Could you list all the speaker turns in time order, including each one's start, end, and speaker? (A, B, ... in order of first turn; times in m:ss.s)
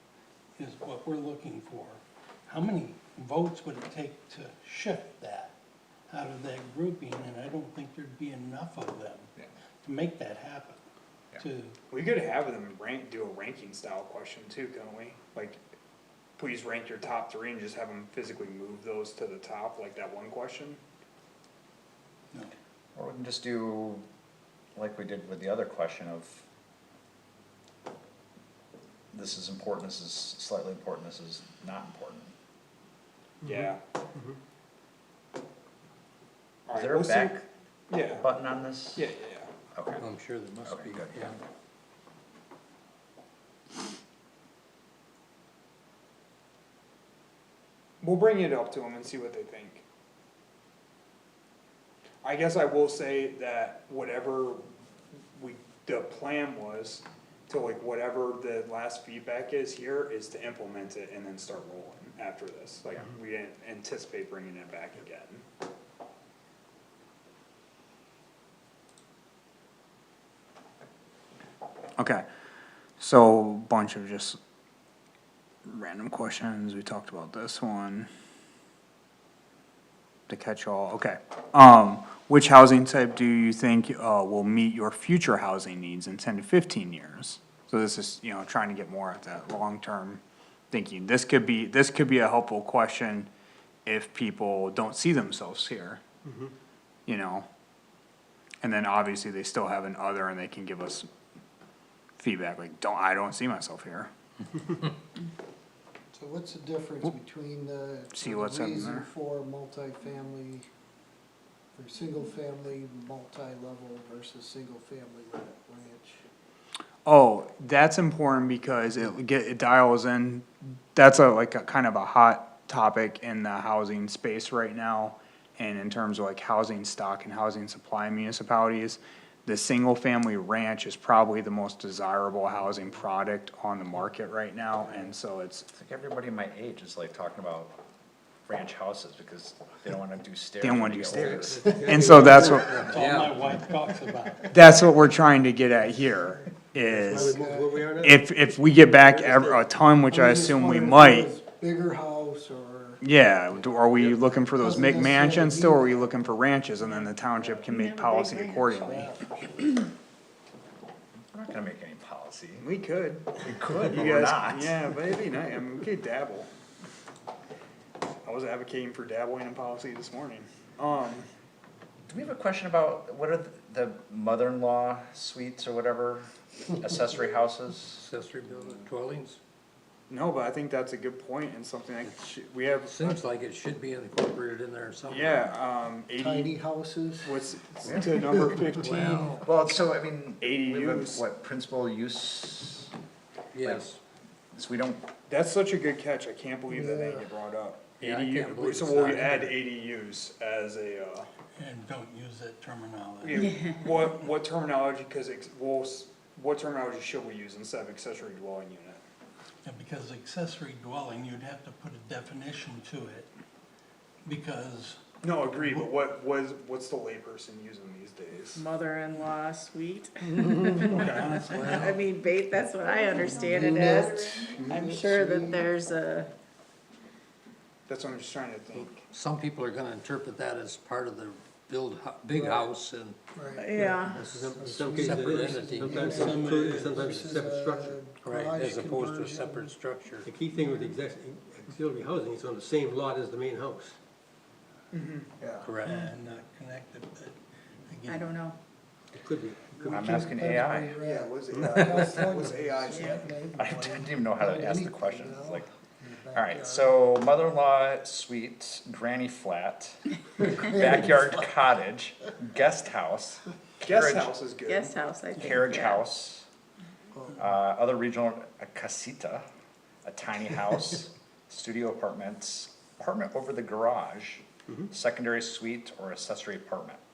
0:00.6-0:05.6 A
0:06.1-0:09.3 A
0:09.8-0:10.8 A
0:11.4-0:11.8 A
0:11.9-0:15.6 B
0:16.4-0:20.8 B
0:22.9-0:24.0 C
0:24.7-0:26.4 C
0:29.1-0:32.3 C
0:33.4-0:33.8 B
0:36.7-0:37.3 B
0:36.7-0:37.4 C
0:37.9-0:38.3 B
0:38.1-0:39.1 C
0:39.0-0:39.5 B
0:39.7-0:40.0 C
0:40.0-0:41.4 D
0:40.6-0:41.4 C
0:48.0-0:49.8 B
0:52.2-0:54.6 B
0:55.4-1:05.4 B
1:12.0-1:12.2 B
1:13.0-1:14.4 B
1:15.6-1:18.1 B
1:20.3-1:33.3 B
1:33.8-1:36.0 B
1:37.1-1:37.4 B
1:38.6-1:41.1 B
1:42.2-1:44.1 B
1:46.1-1:50.6 E
1:48.1-1:49.1 B
1:51.7-1:56.2 E
1:57.0-2:15.6 B
2:15.7-2:17.8 C
2:18.5-2:22.2 C
2:20.6-2:23.0 B
2:21.5-2:22.9 E
2:22.1-2:23.5 D
2:22.3-2:24.6 A
2:24.5-2:27.4 B
2:27.0-2:28.2 F
2:27.1-2:27.8 E
2:28.0-2:31.3 B
2:29.0-2:29.6 F
2:30.1-2:33.0 E
2:33.0-2:39.0 B
2:34.5-2:36.2 E
2:37.4-2:39.0 G
2:38.7-2:39.7 E
2:41.3-2:42.7 C
2:42.6-2:46.5 B
2:43.4-2:44.8 C
2:48.2-2:51.3 B
2:52.1-2:58.1 C
2:58.0-2:59.4 D
3:00.1-3:03.2 B
3:02.0-3:02.3 D
3:02.8-3:05.5 D
3:05.1-3:06.6 B
3:06.2-3:08.9 E
3:07.2-3:09.4 B
3:08.8-3:09.3 G
3:08.8-3:09.4 D
3:09.4-3:12.9 C
3:10.4-3:11.2 B
3:13.5-3:14.0 D
3:13.6-3:13.9 C
3:14.5-3:15.1 C
3:15.3-3:21.3 B
3:16.7-3:17.3 E
3:18.0-3:19.6 D
3:21.6-3:24.2 A
3:23.2-3:29.0 B
3:23.3-3:23.9 G
3:29.6-3:33.3 A
3:34.2-3:35.0 A
3:35.2-3:38.6 B
3:35.5-3:35.8 A
3:38.5-3:46.3 G
3:40.8-3:41.9 B
3:41.4-3:42.1 D
3:43.2-3:45.7 E
3:47.9-3:49.0 B
3:48.8-3:53.2 D
3:52.3-3:52.7 F
3:53.4-3:59.8 E
3:53.5-3:54.2 G
3:53.8-3:57.9 F
3:54.2-3:56.6 D
3:55.8-3:57.1 A
3:58.2-4:00.3 D
4:00.2-4:04.0 F
4:00.5-4:01.0 G
4:04.9-4:05.3 B
4:05.4-4:05.7 E
4:05.6-4:05.9 D
4:05.8-4:07.3 A
4:05.8-4:06.1 G
4:07.9-4:08.4 A
4:08.0-4:08.6 G
4:09.1-4:10.2 F
4:09.8-4:16.9 E
4:09.8-4:10.3 B
4:09.9-4:11.0 C
4:11.0-4:13.9 B
4:12.9-4:13.2 G
4:13.5-4:15.7 C
4:16.3-4:24.3 C
4:23.8-4:25.2 B
4:24.7-4:26.0 G
4:25.4-4:26.5 C
4:27.4-4:29.4 C
4:30.0-4:37.0 C